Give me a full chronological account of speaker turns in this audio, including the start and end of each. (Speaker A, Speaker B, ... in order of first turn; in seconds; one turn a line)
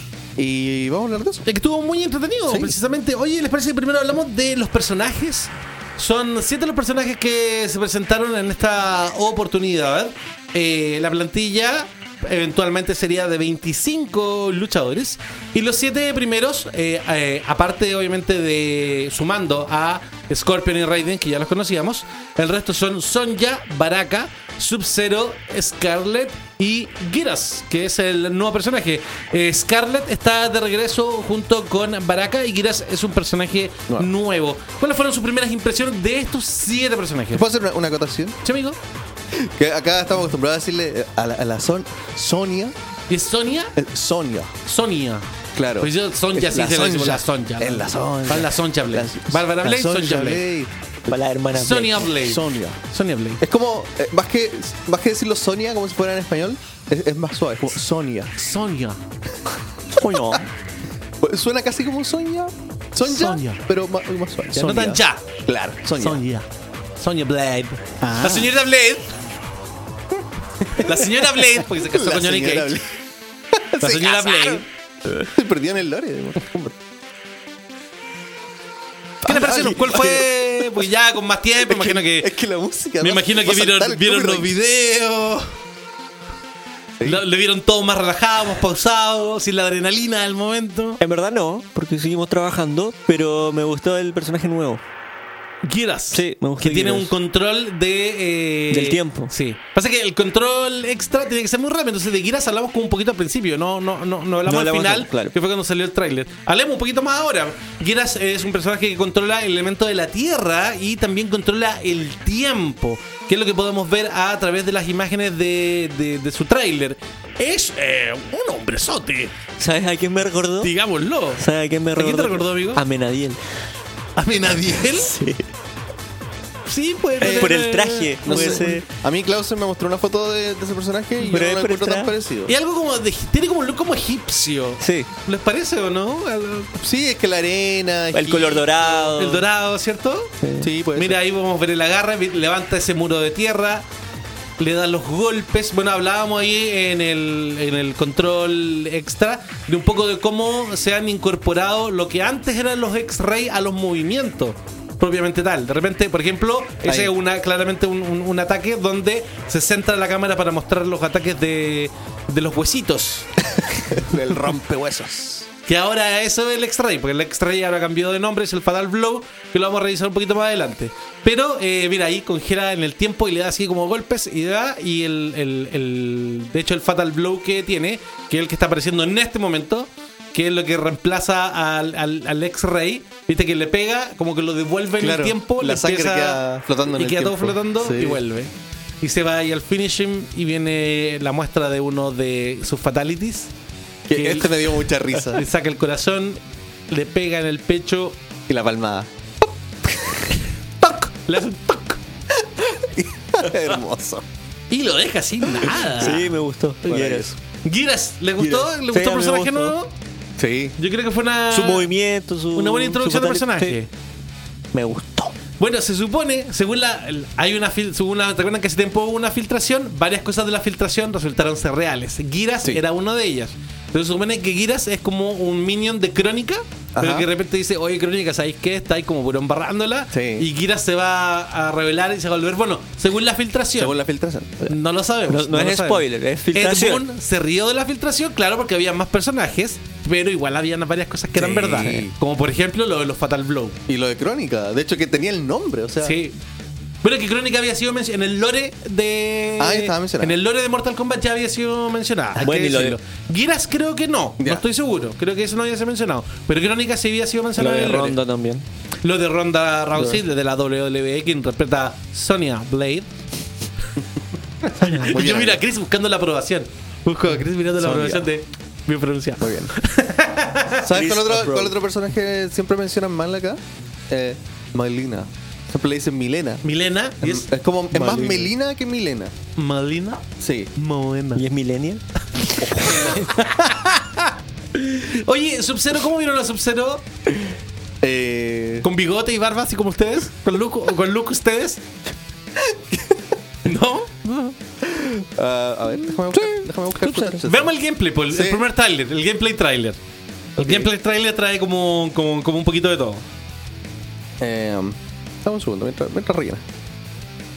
Speaker A: 0.4-1.4
Speaker B: 1.5-37.5
Speaker A: 2.5-2.7
Speaker A: 37.3-38.4
Speaker B: 38.4-38.8
Speaker A: 39.3-42.8
Speaker B: 43.1-43.7
Speaker A: 43.8-44.5
Speaker B: 44.6-45.3
Speaker A: 45.5-50.7
Speaker B: 45.8-50.4
Speaker C: 51.1-52.1
Speaker B: 51.5-53.4
Speaker A: 52.2-52.8
Speaker A: 53.4-58.3
Speaker B: 58.4-59.0
Speaker C: 60.0-60.5
Speaker A: 60.0-60.4
Speaker A: 61.2-66.2
Speaker B: 63.0-63.6
Speaker B: 64.5-65.2
Speaker B: 66.0-66.5
Speaker B: 67.0-69.1
Speaker A: 70.7-72.9
Speaker B: 70.7-72.8
Speaker A: 73.5-74.5
Speaker B: 73.8-74.7
Speaker A: 75.2-76.8
Speaker A: 79.2-80.9
Speaker B: 79.2-82.3
Speaker A: 81.6-84.5
Speaker B: 83.0-85.5
Speaker B: 87.0-91.0
Speaker C: 91.0-94.8
Speaker B: 95.6-119.3
Speaker C: 96.1-97.1
Speaker C: 98.7-99.3
Speaker C: 104.5-105.3
Speaker C: 119.6-120.7
Speaker B: 120.6-121.4
Speaker C: 121.4-123.4
Speaker B: 122.0-122.8
Speaker B: 124.2-125.1
Speaker C: 124.9-125.4
Speaker B: 126.7-128.7
Speaker C: 127.2-128.8
Speaker A: 127.2-127.6
Speaker A: 128.2-132.5
Speaker C: 131.2-132.1
Speaker B: 132.5-136.8
Speaker C: 134.8-135.1
Speaker A: 136.8-139.1
Speaker C: 138.1-139.5
Speaker B: 139.2-140.3
Speaker C: 140.4-140.7
Speaker A: 140.6-141.2
Speaker B: 140.9-143.9
Speaker B: 144.6-163.3
Speaker A: 156.8-157.1
Speaker A: 163.6-165.5
Speaker B: 165.7-193.5
Speaker A: 185.0-188.2
Speaker A: 194.1-195.4
Speaker B: 194.1-194.7
Speaker B: 195.3-198.2
Speaker A: 198.5-199.1
Speaker B: 200.8-202.0
Speaker A: 202.4-204.2
Speaker B: 204.7-206.3
Speaker C: 205.9-207.4
Speaker B: 206.8-209.9
Speaker C: 208.4-209.7
Speaker A: 210.4-210.8
Speaker B: 210.8-211.9
Speaker C: 211.5-213.8
Speaker B: 212.6-213.9
Speaker C: 214.7-215.4
Speaker B: 215.6-234.0
Speaker A: 227.0-227.3
Speaker A: 230.1-230.5
Speaker A: 233.8-234.7
Speaker B: 234.7-243.8
Speaker C: 235.3-237.1
Speaker A: 241.4-242.1
Speaker C: 241.8-242.1
Speaker A: 243.9-246.2
Speaker B: 246.0-246.3
Speaker B: 247.0-258.2
Speaker A: 249.6-250.4
Speaker C: 252.4-253.0
Speaker A: 254.4-254.7
Speaker C: 257.6-258.6
Speaker B: 259.0-263.1
Speaker B: 264.6-270.9
Speaker A: 264.8-265.6
Speaker C: 267.8-268.2
Speaker A: 269.4-269.7
Speaker A: 270.8-276.6
Speaker C: 270.9-271.8
Speaker B: 276.6-277.5
Speaker A: 277.2-279.3
Speaker C: 277.9-278.5
Speaker B: 279.6-280.2
Speaker A: 280.4-280.7
Speaker B: 280.8-281.4
Speaker C: 281.4-282.0
Speaker C: 282.5-283.1
Speaker B: 282.8-287.0
Speaker A: 288.0-288.9
Speaker B: 288.8-291.8
Speaker A: 292.6-293.2
Speaker B: 293.6-294.5
Speaker A: 295.1-297.7
Speaker C: 296.3-297.4
Speaker B: 297.4-300.0
Speaker A: 298.3-298.6
Speaker B: 300.6-303.2
Speaker A: 304.4-306.6